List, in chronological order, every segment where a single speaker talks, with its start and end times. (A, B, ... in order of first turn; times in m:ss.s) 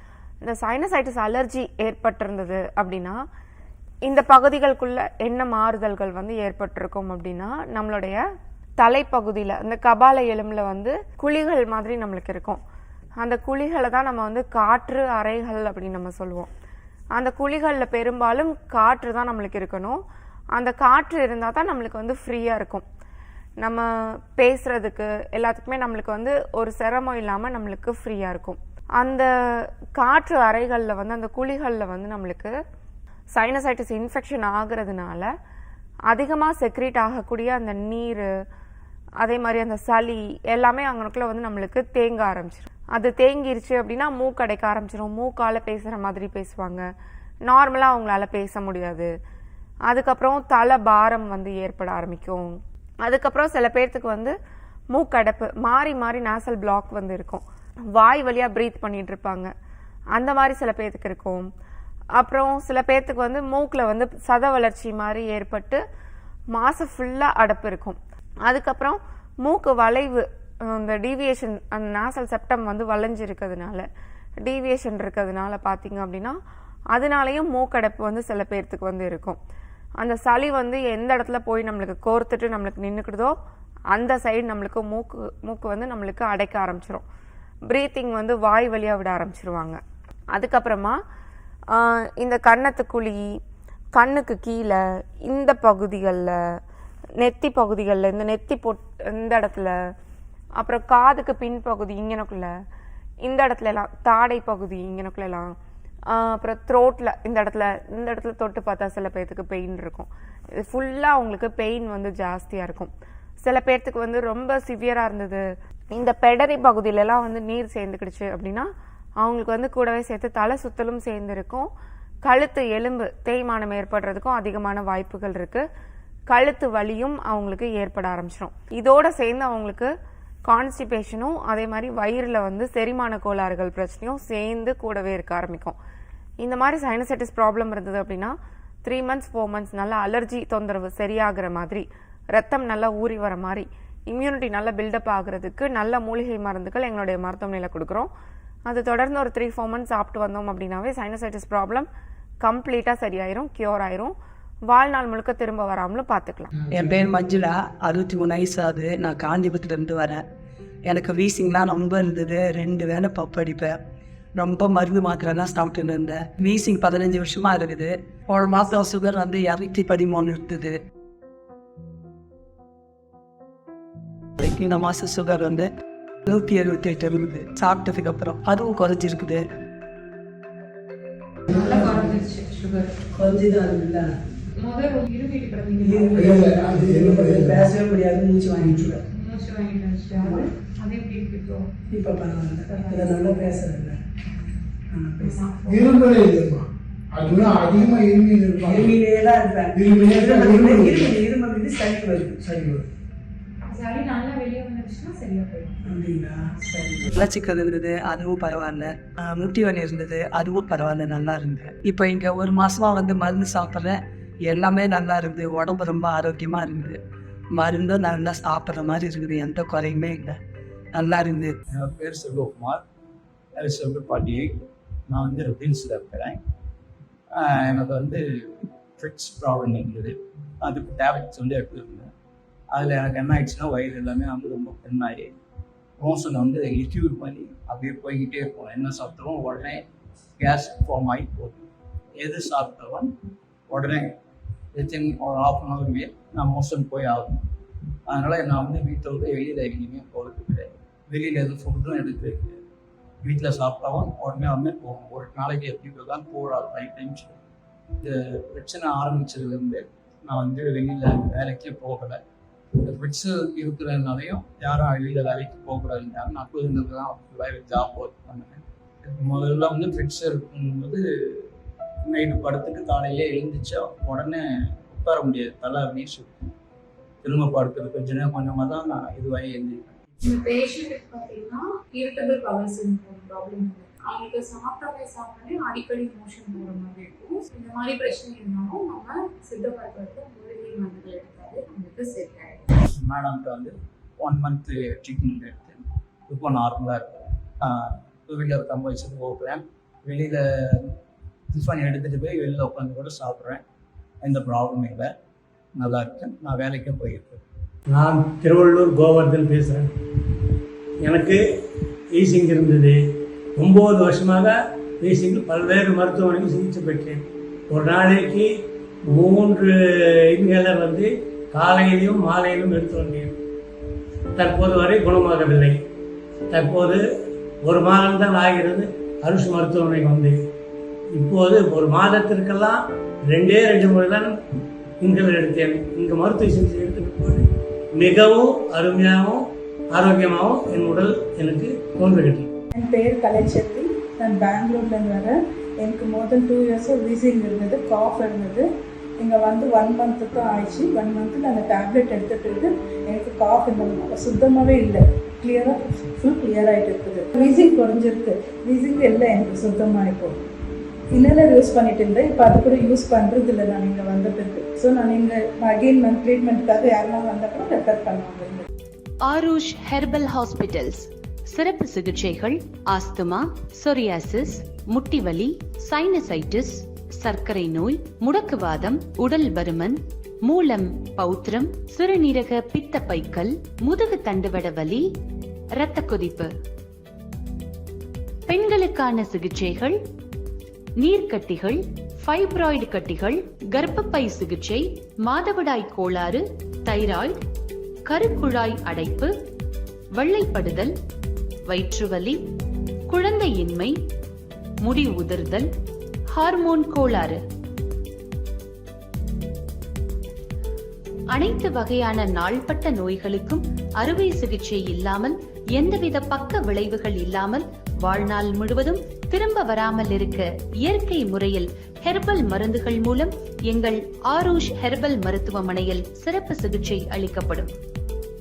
0:00.4-0:03.2 A
0:04.0-0:08.2 A
0:08.8-0:12.6 A
0:13.2-0:16.5 A
0:17.2-0:20.0 A
0:20.6-0:22.8 A
0:23.6-0:32.5 A
0:33.3-0:35.3 A
0:36.1-0:38.3 A
0:39.2-0:46.8 A
0:47.4-0:49.1 A
0:49.9-0:54.3 A
0:54.9-0:57.4 A
0:57.9-0:59.5 A
1:00.1-1:01.5 A
1:02.2-1:05.8 A
1:06.5-1:13.8 A
1:14.4-1:16.4 A
1:16.9-1:19.4 A
1:20.0-1:23.3 A
1:23.9-1:27.0 A
1:27.7-1:29.8 A
1:30.3-1:31.0 A
1:31.7-1:33.3 A
1:34.0-1:36.4 A
1:37.2-1:39.7 A
1:40.6-1:42.5 A
1:43.2-1:45.5 A
1:46.1-1:52.9 A
1:53.4-1:58.7 A
1:59.2-2:01.7 A
2:02.2-2:05.6 A
2:06.3-2:09.9 A
2:10.4-2:15.7 A
2:16.4-2:28.1 A
2:28.6-2:31.9 A
2:32.4-2:34.1 A
2:34.7-2:36.5 A
2:36.7-2:40.2 B
2:40.9-2:43.7 B
2:44.4-2:50.8 B
2:54.4-2:55.7 B
2:56.2-2:59.4 B
3:01.5-3:02.1 B
3:01.5-3:03.0 C
3:03.1-3:04.1 B
3:04.6-3:06.4 C
3:05.8-3:09.0 B
3:06.2-3:07.7 D
3:09.1-3:11.7 C
3:10.1-3:10.5 B
3:11.9-3:14.0 B
3:12.7-3:13.2 C
3:14.9-3:15.7 B
3:15.2-3:16.1 C
3:15.6-3:18.9 D
3:17.7-3:18.0 B
3:18.6-3:22.8 B
3:19.7-3:21.1 D
3:23.7-3:25.8 C
3:25.8-3:37.0 B
3:37.5-3:40.4 B
3:40.9-3:41.5 B
3:41.7-3:42.8 E
3:43.6-3:46.4 E
3:47.3-3:52.1 E
3:52.7-3:55.3 E
3:56.0-3:59.8 E
4:00.4-4:03.1 E
4:03.7-4:04.1 E
4:04.7-4:07.4 E
4:08.1-4:12.6 E
4:13.2-4:17.4 E
4:18.0-4:22.2 E
4:22.8-4:31.5 E
4:32.0-4:36.5 E
4:37.2-4:40.0 E
4:40.2-4:52.7 C
4:52.8-5:01.0 E
5:01.5-5:03.6 E
5:04.2-5:05.1 E
5:05.8-5:07.4 E
5:07.9-5:09.9 F
5:11.0-5:11.4 F
5:12.1-5:13.0 F
5:13.6-5:18.5 F
5:19.1-5:23.4 F
5:24.4-5:25.8 F
5:26.5-5:27.0 F
5:27.6-5:30.4 F
5:31.1-5:34.3 F
5:35.0-5:42.5 F
5:42.7-5:48.7 G
5:49.2-6:00.4 G
6:01.1-6:08.6 G
6:09.2-6:25.1 H
6:25.7-6:26.5 H
6:28.5-6:30.0 H
6:31.0-6:37.4 H
6:38.0-6:39.3 H
6:40.2-6:40.9 H
6:41.7-6:42.4 H
6:43.1-6:43.9 H
6:44.8-6:45.7 H
6:46.3-6:47.4 H
6:51.3-7:07.7 H